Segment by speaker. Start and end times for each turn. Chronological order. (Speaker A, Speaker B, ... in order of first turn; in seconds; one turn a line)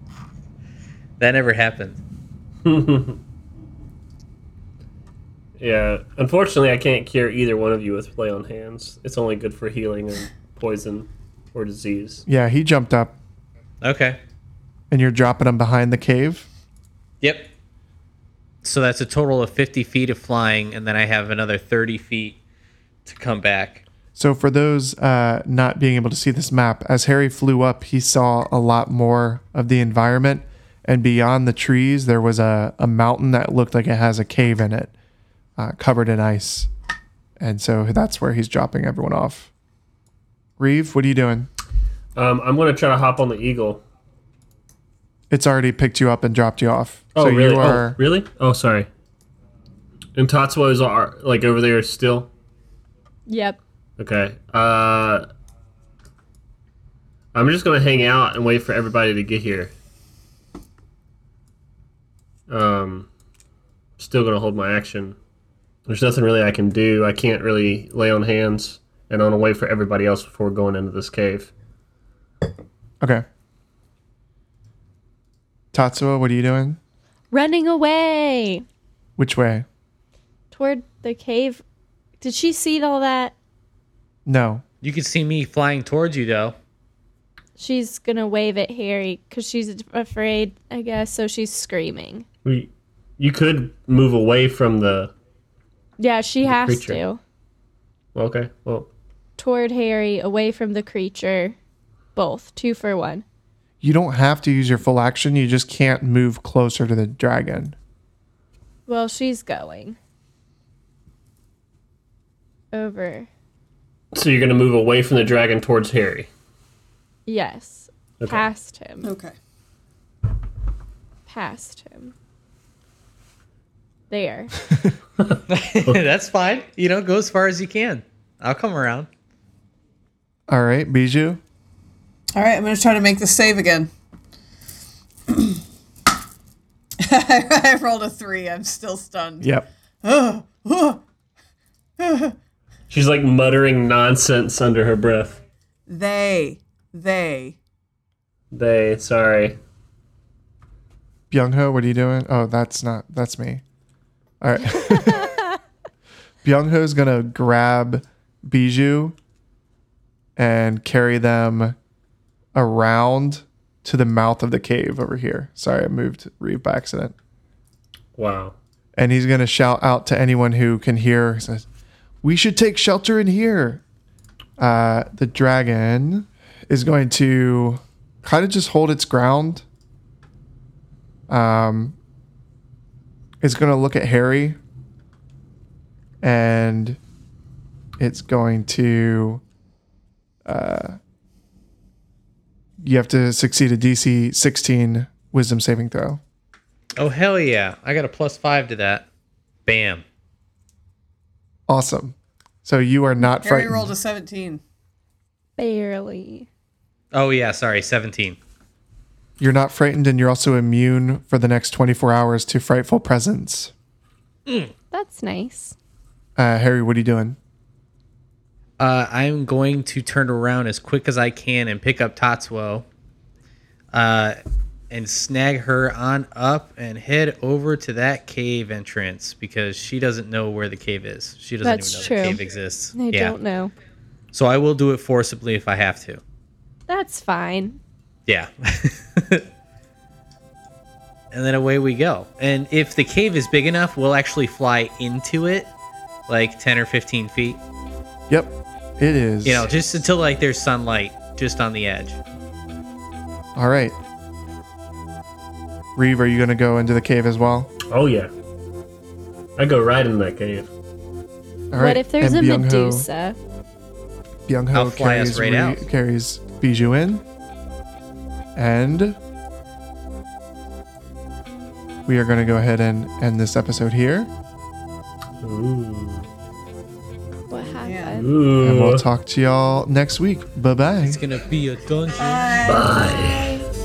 Speaker A: 1.2-2.0
Speaker B: 2.6-3.2
Speaker B: 5.6-12.2
Speaker C: 12.3-13.2
Speaker A: 13.8-14.2
Speaker C: 14.9-16.5
Speaker A: 17.2-17.5
Speaker A: 18.6-22.4
Speaker A: 23.1-23.8
Speaker C: 24.2-34.9
Speaker C: 35.6-36.7
Speaker C: 37.4-39.5
Speaker C: 40.6-41.5
Speaker B: 42.1-43.8
Speaker C: 45.3-48.0
Speaker B: 47.1-48.9
Speaker B: 50.1-52.3
Speaker D: 53.3-53.6
Speaker B: 54.0-55.3
Speaker B: 57.3-59.7
Speaker B: 62.5-63.1
Speaker B: 64.0-65.2
Speaker B: 65.9-71.5
Speaker C: 75.7-76.8
Speaker D: 77.3-78.7
Speaker C: 79.2-79.7
Speaker D: 80.5-81.6
Speaker D: 82.2-83.3
Speaker C: 84.3-84.6
Speaker A: 84.8-86.5
Speaker D: 87.6-92.2
Speaker B: 92.5-95.1
Speaker D: 96.0-97.2
Speaker B: 96.4-97.0
Speaker B: 98.2-98.9
Speaker D: 99.4-101.6
Speaker D: 102.2-103.2
Speaker C: 103.8-107.8
Speaker D: 108.9-110.0
Speaker D: 112.7-113.3
Speaker B: 114.1-116.3
Speaker D: 117.3-119.1
Speaker B: 118.2-118.5
Speaker E: 119.0-119.3
Speaker D: 121.3-122.1
Speaker D: 124.1-124.5
Speaker B: 125.2-126.0
Speaker A: 125.5-129.1
Speaker C: 130.5-131.4
Speaker E: 132.3-133.9
Speaker E: 135.3-135.6
Speaker E: 137.0-139.5
Speaker C: 139.4-139.7
Speaker E: 140.0-141.0
Speaker E: 142.0-142.3
Speaker B: 142.9-145.4
Speaker E: 145.9-147.6
Speaker B: 148.5-149.6
Speaker C: 151.3-153.6
Speaker C: 154.4-155.3
Speaker C: 156.4-159.2
Speaker C: 160.4-161.8
Speaker C: 162.5-167.1
Speaker B: 168.2-168.6
Speaker C: 169.0-171.7
Speaker C: 172.2-173.8
Speaker C: 174.6-179.6
Speaker C: 181.3-182.0
Speaker C: 183.4-184.6
Speaker C: 186.2-187.0
Speaker C: 188.0-189.4
Speaker C: 190.5-191.0
Speaker C: 192.8-196.2
Speaker A: 197.0-199.1
Speaker A: 199.7-200.0
Speaker C: 201.7-203.9
Speaker E: 203.2-204.6
Speaker D: 205.6-206.5
Speaker A: 207.1-208.4
Speaker C: 209.4-213.7
Speaker D: 214.9-215.8
Speaker C: 216.4-217.4
Speaker A: 218.8-222.9
Speaker A: 223.9-224.4
Speaker A: 224.9-233.3
Speaker D: 231.6-232.4
Speaker D: 232.9-233.7
Speaker A: 234.3-236.2
Speaker D: 236.9-237.8
Speaker A: 238.3-239.4
Speaker A: 241.3-245.7
Speaker A: 246.3-247.6
Speaker C: 248.3-249.7
Speaker A: 249.4-252.2
Speaker C: 253.6-253.9
Speaker C: 255.9-257.7
Speaker B: 257.9-258.3
Speaker B: 259.6-260.7
Speaker C: 261.7-263.1
Speaker D: 261.7-263.4
Speaker C: 264.5-267.2
Speaker A: 264.7-265.8
Speaker C: 268.6-269.2
Speaker C: 272.1-274.3
Speaker B: 275.4-276.3
Speaker D: 277.5-278.3
Speaker E: 277.7-278.3
Speaker B: 278.1-279.0
Speaker C: 278.6-281.2
Speaker A: 281.0-282.6
Speaker E: 282.2-283.4
Speaker B: 282.6-283.6